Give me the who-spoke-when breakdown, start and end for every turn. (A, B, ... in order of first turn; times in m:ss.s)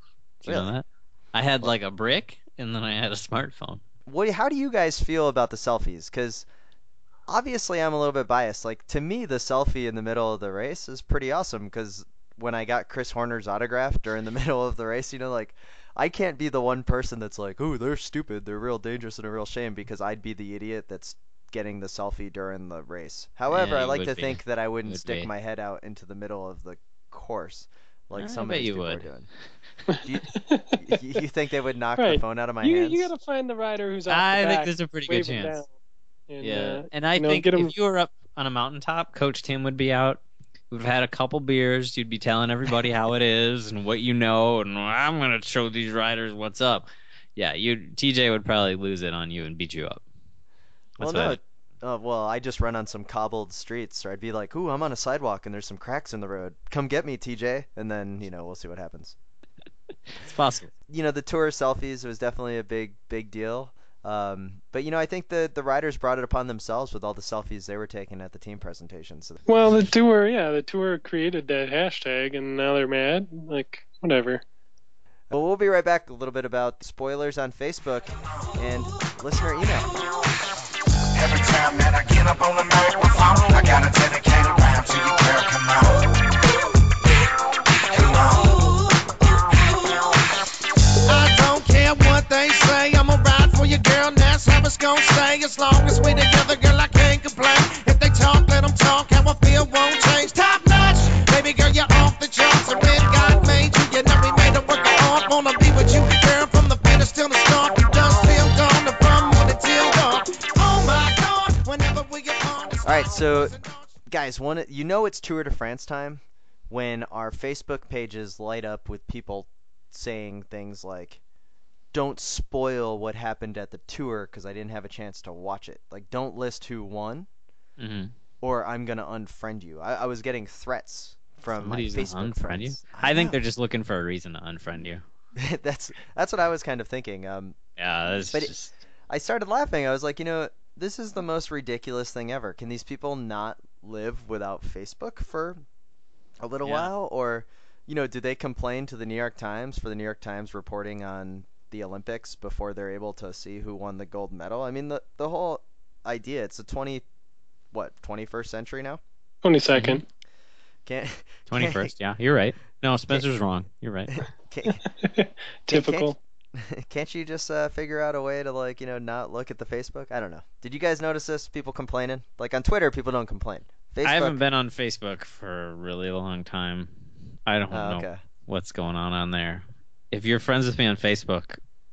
0:00.4-0:03.8 A
0:00.4-0:00.7 B
0:04.1-0:06.4 B
0:07.3-0:29.3 B
0:23.5-0:25.3 A
0:28.1-0:29.1 A
0:29.9-0:31.0 C
0:30.0-0:33.1 B
0:32.0-0:35.7 C
0:34.1-0:35.6 A
0:36.3-0:37.7 C
0:36.4-0:50.0 A
0:51.0-0:51.4 A
0:51.0-0:59.1 B
1:00.1-1:00.7 A
1:00.9-1:09.4 B
1:09.5-1:14.4 C
1:15.3-1:19.9 B
1:21.1-1:26.1 D
1:27.9-1:28.9 D
1:29.5-1:30.1 D
1:31.0-1:53.9 D
1:52.8-1:53.5 B
1:54.1-2:01.2 B
2:01.9-2:07.3 B
2:07.8-2:08.1 A
2:08.4-2:13.4 B
2:11.5-2:15.0 A
2:15.4-2:17.6 B
2:17.8-2:18.8 A
2:19.1-2:25.6 B
2:26.4-2:37.0 B
2:26.6-2:26.9 A
2:37.7-2:39.0 B
2:39.4-2:40.0 C
2:39.7-2:40.0 A
2:40.8-2:41.9 B
2:41.5-2:44.2 A
2:44.1-2:44.8 B
2:45.0-2:46.2 C
2:45.7-2:54.4 B
2:54.0-2:56.9 A
2:57.4-3:01.6 A
2:57.7-2:58.2 B